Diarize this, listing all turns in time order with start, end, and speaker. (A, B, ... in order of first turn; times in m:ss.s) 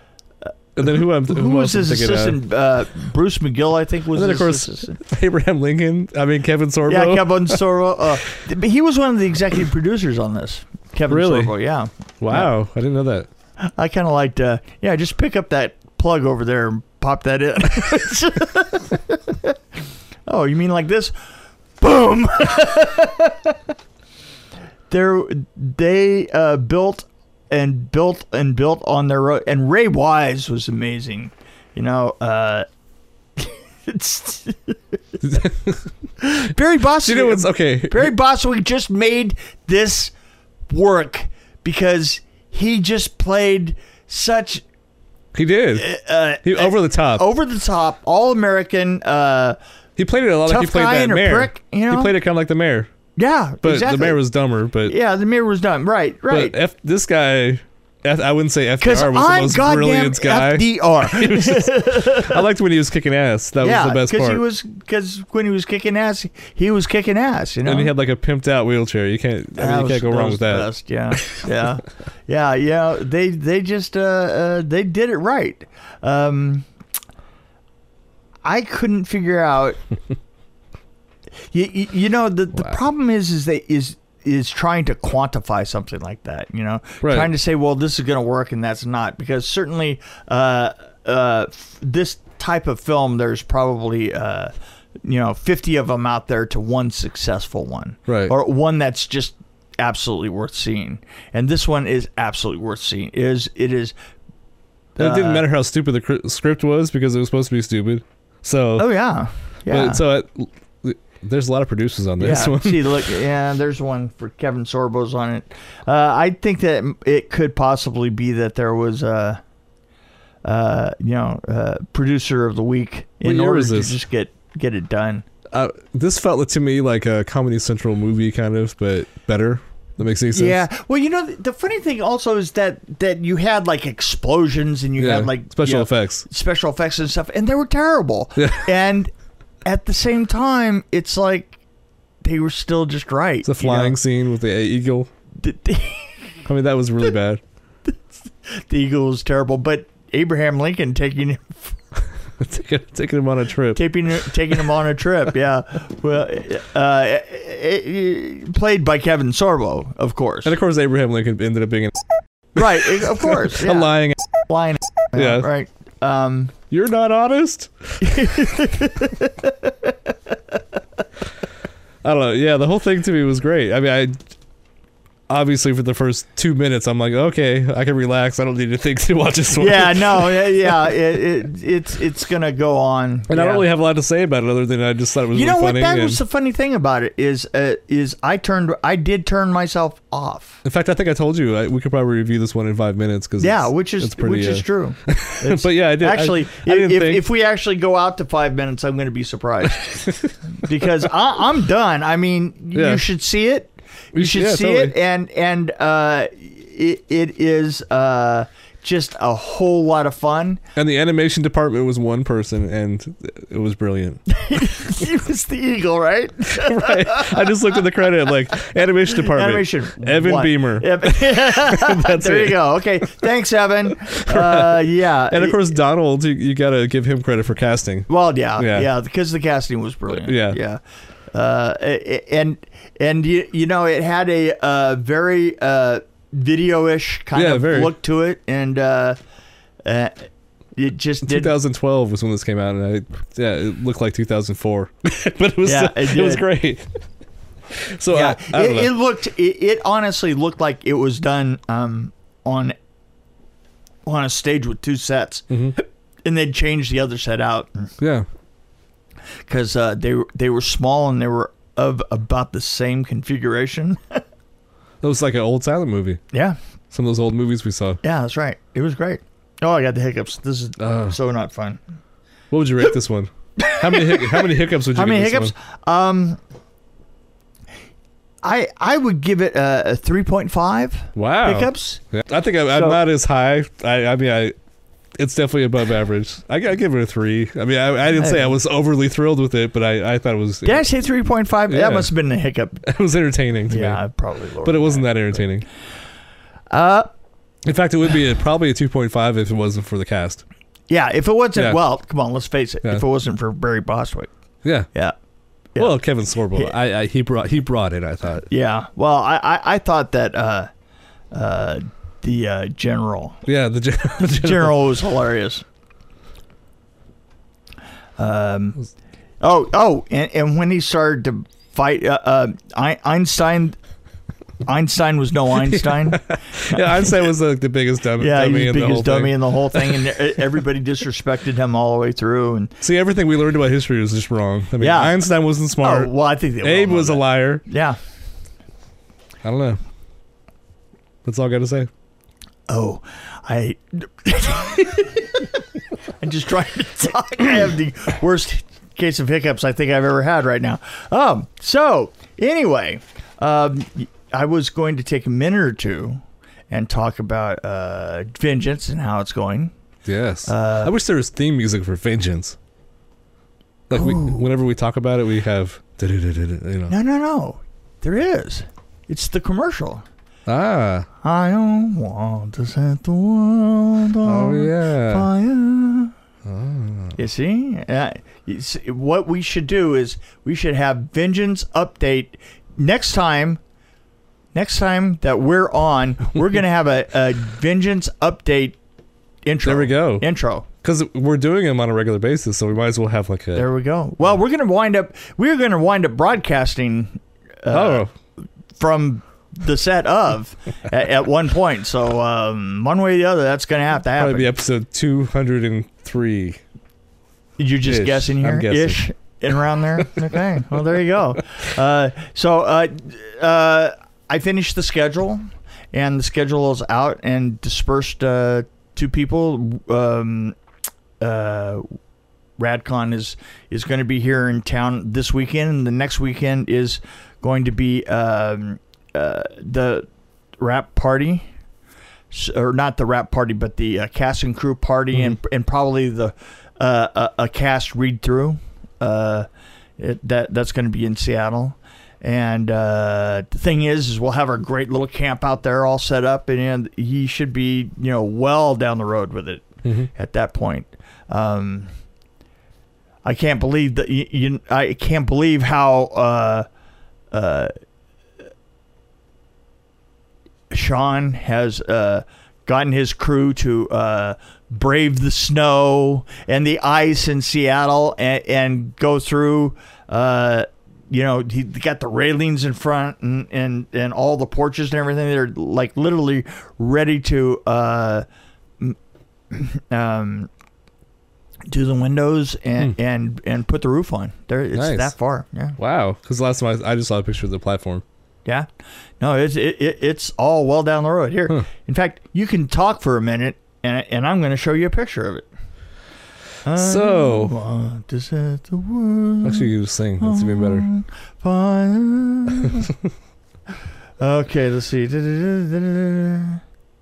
0:00.8-0:02.4 A
0:00.8-0:05.0 B
0:04.1-0:07.6 A
0:06.9-0:12.5 B
0:11.1-0:11.5 A
0:12.2-0:13.3 A
0:13.6-0:19.5 B
0:20.3-0:21.1 B
0:21.8-0:23.6 B
0:24.9-0:32.6 B
0:33.4-0:34.8 B
0:35.3-0:35.8 A
0:36.2-0:40.1 B
0:37.0-0:38.1 A
0:40.7-0:44.6 B
0:45.3-0:45.9 A
0:45.7-0:49.6 B
0:46.4-0:47.2 A
0:50.0-0:52.9 A
0:50.4-0:52.1 B
0:53.2-0:54.2 B
0:53.6-0:55.0 A
0:54.8-0:56.6 B
0:56.3-1:04.4 A
0:58.8-1:02.4 B
1:03.6-1:07.9 B
1:07.6-1:10.7 A
1:09.6-1:16.6 B
1:18.4-1:19.8 B
1:21.5-1:34.5 B
1:27.0-1:27.3 A
1:35.0-1:44.0 B
1:38.1-1:38.3 A
1:45.0-1:48.9 A
1:45.0-1:45.5 B
1:48.8-1:50.0 B
1:49.7-1:53.0 A
1:52.2-1:59.4 B
2:00.4-2:05.2 B
2:03.2-2:04.0 A
2:05.5-2:10.6 A
2:10.3-2:19.1 B
2:15.0-2:16.2 A
2:18.4-2:18.7 A
2:19.6-2:21.6 B
2:22.2-2:24.0 B
2:23.4-2:25.1 A
2:25.4-2:26.4 B
2:26.4-2:27.4 A
2:28.3-2:31.7 B
2:32.4-2:33.8 A
2:33.7-2:40.5 B
2:40.4-2:42.0 A
2:42.6-2:44.3 A
2:42.6-2:46.5 B
2:45.1-2:45.5 A
2:46.7-2:48.4 A
2:48.0-2:49.9 B
2:52.0-2:54.2 A
2:55.3-3:00.9 A
2:59.5-3:03.7 B
3:03.3-3:06.2 A
3:05.3-3:10.6 B
3:10.6-3:17.2 A
3:13.4-3:30.6 B
3:19.9-3:20.3 A
3:22.7-3:23.0 A
3:24.1-3:24.9 A
3:30.8-3:34.8 A
3:34.3-3:37.5 B
3:36.6-3:43.1 A
3:39.2-3:45.6 B
3:44.0-3:48.9 A
3:48.1-3:50.8 B
3:50.1-3:50.6 A
3:51.3-3:59.2 B
3:57.3-3:57.9 A
3:59.8-4:00.2 B
4:00.8-4:01.5 B
4:01.2-4:06.9 A
4:05.6-4:06.4 B
4:07.7-4:08.9 A
4:08.1-4:12.7 B
4:14.0-4:17.9 B
4:15.5-4:15.8 A
4:18.0-4:18.2 A
4:19.5-4:24.2 B
4:25.0-4:26.2 A
4:26.3-4:26.6 B
4:26.9-4:28.0 A
4:28.0-4:31.8 B
4:30.8-4:31.2 A
4:32.5-4:35.5 A
4:33.6-4:36.4 B
4:38.4-4:42.0 B
4:41.2-4:44.5 A
4:42.7-4:43.0 B
4:45.2-4:50.8 A
4:48.1-4:48.6 B
4:50.6-4:52.8 B
4:51.7-4:52.1 A
4:52.8-4:54.0 A
4:53.7-4:55.4 B
4:54.6-4:55.6 A
4:56.7-4:57.1 B
4:57.6-5:00.4 A
5:00.9-5:04.3 B
5:01.5-5:01.8 A
5:05.7-5:06.0 B
5:05.8-5:08.4 A
5:08.5-5:10.7 B
5:11.3-5:13.4 B
5:13.4-5:14.8 A
5:14.2-5:15.6 B
5:18.2-5:18.8 B
5:19.4-5:23.8 B
5:24.6-5:27.2 B
5:25.6-5:30.0 A
5:28.2-5:32.7 B
5:32.8-5:37.6 A
5:34.8-5:35.2 B
5:35.8-5:38.0 B
5:39.4-5:39.8 A
5:41.2-5:41.9 A
5:42.7-5:45.5 B
5:46.2-5:59.7 B
6:00.0-6:02.6 A
6:00.4-6:00.9 B
6:03.9-6:06.9 A
6:03.9-6:04.4 B
6:06.9-6:10.0 B
6:10.5-6:11.1 A
6:11.2-6:16.1 B
6:14.2-6:15.3 A
6:16.4-6:17.2 A
6:17.2-6:23.6 B
6:24.5-6:28.8 B
6:29.4-6:30.6 B
6:29.6-6:30.2 A
6:30.8-6:33.7 A
6:33.5-6:38.0 B
6:37.7-6:38.1 A
6:38.8-6:44.5 B
6:44.1-6:46.6 A
6:47.6-7:00.6 B
6:47.8-6:49.0 A
7:01.2-7:01.8 B
7:02.6-7:10.1 B
7:10.6-7:11.4 B
7:12.3-7:19.5 B
7:20.0-7:31.9 B
7:33.2-7:36.7 B
7:37.3-7:37.7 B
7:40.7-7:58.2 B
7:59.5-8:00.5 B
8:01.7-8:05.8 B
8:04.7-8:05.1 A
8:05.8-8:08.0 A
8:09.2-8:15.5 B
8:16.6-8:22.9 B
8:16.8-8:17.5 A
8:19.4-8:20.9 A
8:24.2-8:26.6 B